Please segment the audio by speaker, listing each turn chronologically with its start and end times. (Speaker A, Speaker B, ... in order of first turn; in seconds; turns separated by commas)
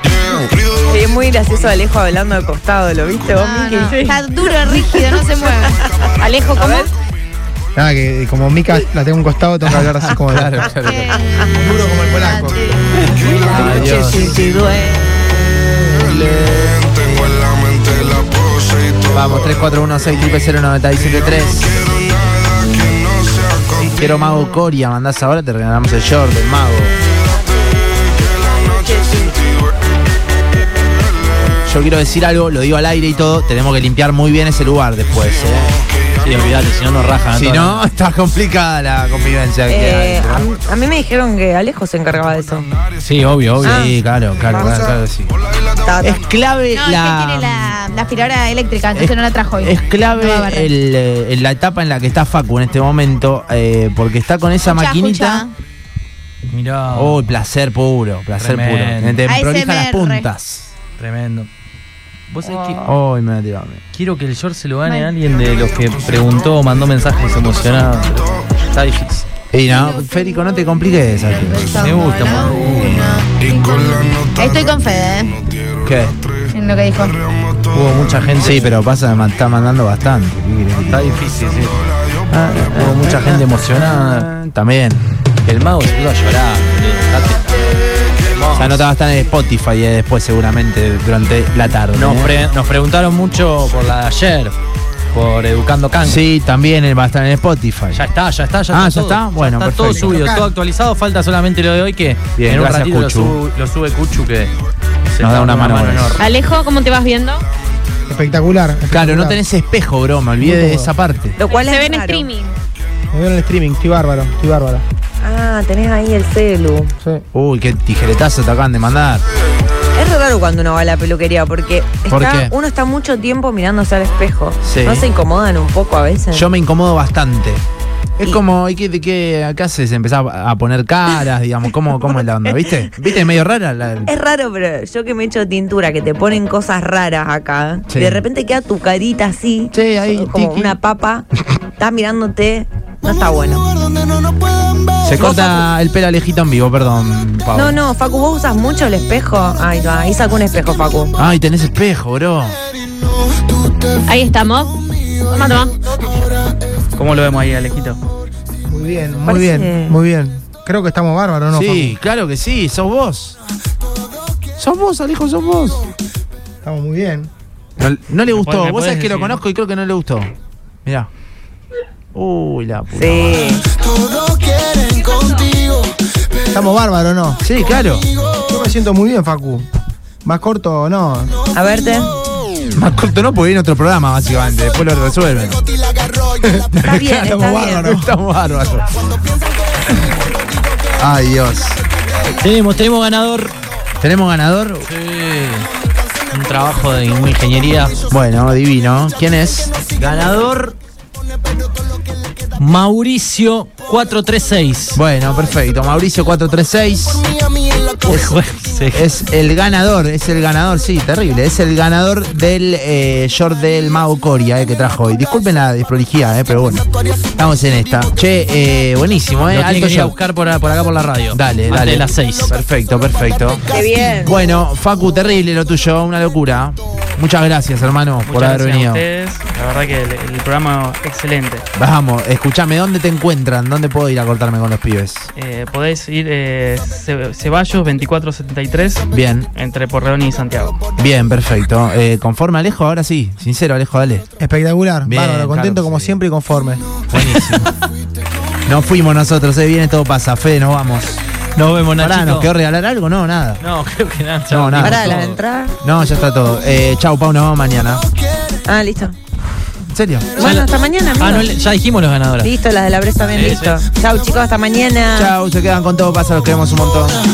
Speaker A: 0.7-4.0, Speaker B: 3.3-5.8, Speaker C: 3.7-5.1, Speaker C: 6.2-6.9, Speaker A: 6.5-6.9, Speaker D: 7.7-10.7, Speaker E: 9.8-11.2, Speaker B: 10.8-11.2, Speaker D: 11.6-12.6, Speaker B: 12.2-14.2, Speaker D: 13.2-14.4, Speaker F: 13.3-14.8, Speaker E: 13.5-14.3, Speaker E: 15.9-16.7, Speaker E: 19.1-21.8, Speaker E: 23.9-26.9, Speaker E: 31.6-35.8, Speaker F: 36.2-37.8, Speaker E: 37.3-40.5, Speaker A: 39.7-42.7, Speaker F: 43.0-43.8, Speaker A: 43.6-44.0, Speaker E: 43.6-45.3, Speaker D: 44.4-45.0, Speaker A: 45.8-46.2, Speaker E: 46.0-47.8, Speaker B: 46.7-50.7, Speaker E: 48.9-55.4, Speaker B: 54.6-55.5, Speaker F: 56.5-57.3, Speaker E: 56.9-60.7, Speaker F: 58.4-59.3, Speaker B: 59.3-60.3, Speaker F: 61.0-61.5, Speaker F: 62.3-62.9, Speaker E: 62.8-63.8, Speaker F: 63.9-69.2, Speaker E: 69.5-71.9, Speaker B: 71.2-75.4, Speaker F: 71.7-72.6, Speaker E: 75.8-76.2, Speaker B: 76.5-77.2, Speaker F: 77.7-78.7, Speaker E: 78.4-81.2, Speaker F: 80.9-81.8, Speaker E: 82.3-85.0, Speaker F: 82.7-84.3, Speaker F: 85.4-88.8, Speaker E: 88.5-92.3, Speaker F: 91.9-94.5, Speaker F: 95.1-96.2, Speaker E: 96.0-98.0, Speaker F: 97.9-104.5, Speaker E: 98.7-100.2, Speaker D: 100.0-100.5, Speaker E: 102.3-103.4, Speaker F: 105.0-106.2, Speaker E: 105.2-106.2, Speaker C: 106.2-107.5, Speaker D: 108.1-109.4, Speaker E: 108.9-111.4, Speaker D: 110.4-110.9, Speaker A: 111.4-112.3, Speaker C: 111.5-112.5, Speaker D: 113.1-114.8, Speaker A: 115.2-116.9, Speaker E: 117.3-119.2, Speaker A: 119.9-126.5, Speaker E: 122.1-122.5, Speaker E: 124.6-125.1, Speaker E: 126.3-127.6, Speaker E: 128.2-134.1, Speaker A: 132.4-132.9, Speaker A: 134.1-141.2, Speaker E: 137.9-138.2, Speaker E: 139.7-140.8, Speaker A: 141.8-143.7, Speaker E: 145.0-147.8, Speaker A: 145.1-145.6, Speaker A: 147.5-151.1, Speaker E: 151.2-152.6, Speaker C: 154.1-154.8, Speaker C: 155.3-155.9, Speaker G: 156.9-158.0, Speaker D: 158.7-162.0, Speaker A: 159.2-160.0, Speaker E: 161.5-163.4, Speaker E: 164.6-165.9, Speaker D: 166.6-167.3, Speaker E: 167.8-170.3, Speaker G: 168.3-169.4, Speaker E: 172.1-173.6, Speaker A: 172.9-173.6, Speaker D: 176.5-177.4, Speaker E: 177.4-178.1, Speaker D: 178.5-179.7, Speaker D: 180.2-181.4, Speaker A: 181.5-182.1, Speaker E: 182.7-185.6, Speaker E: 186.7-189.1, Speaker A: 186.8-188.1, Speaker E: 191.0-191.8, Speaker F: 192.3-193.5, Speaker E: 194.0-194.9, Speaker F: 194.9-195.7, Speaker F: 196.3-198.0, Speaker E: 198.1-199.7, Speaker F: 200.0-200.7, Speaker F: 202.6-205.0, Speaker E: 204.9-207.2, Speaker F: 208.0-209.0, Speaker E: 208.1-208.3, Speaker E: 208.9-216.8, Speaker E: 217.3-220.1, Speaker F: 219.5-222.5, Speaker E: 221.3-223.6, Speaker A: 223.7-224.3, Speaker E: 224.2-229.0, Speaker G: 228.2-231.6, Speaker E: 231.8-235.3, Speaker G: 235.3-240.8, Speaker E: 239.1-239.5, Speaker E: 241.0-244.3, Speaker D: 244.4-247.0, Speaker E: 245.0-246.1, Speaker E: 247.1-247.7, Speaker F: 247.2-247.6, Speaker E: 248.7-251.2, Speaker F: 251.6-252.5, Speaker E: 252.0-253.6, Speaker F: 253.6-255.4, Speaker E: 254.5-255.2, Speaker A: 254.8-255.8, Speaker E: 255.8-258.0, Speaker A: 258.6-259.1, Speaker E: 259.9-260.5, Speaker A: 260.4-261.5, Speaker F: 260.4-262.5, Speaker A: 262.4-265.3, Speaker F: 263.3-263.8, Speaker E: 265.1-267.2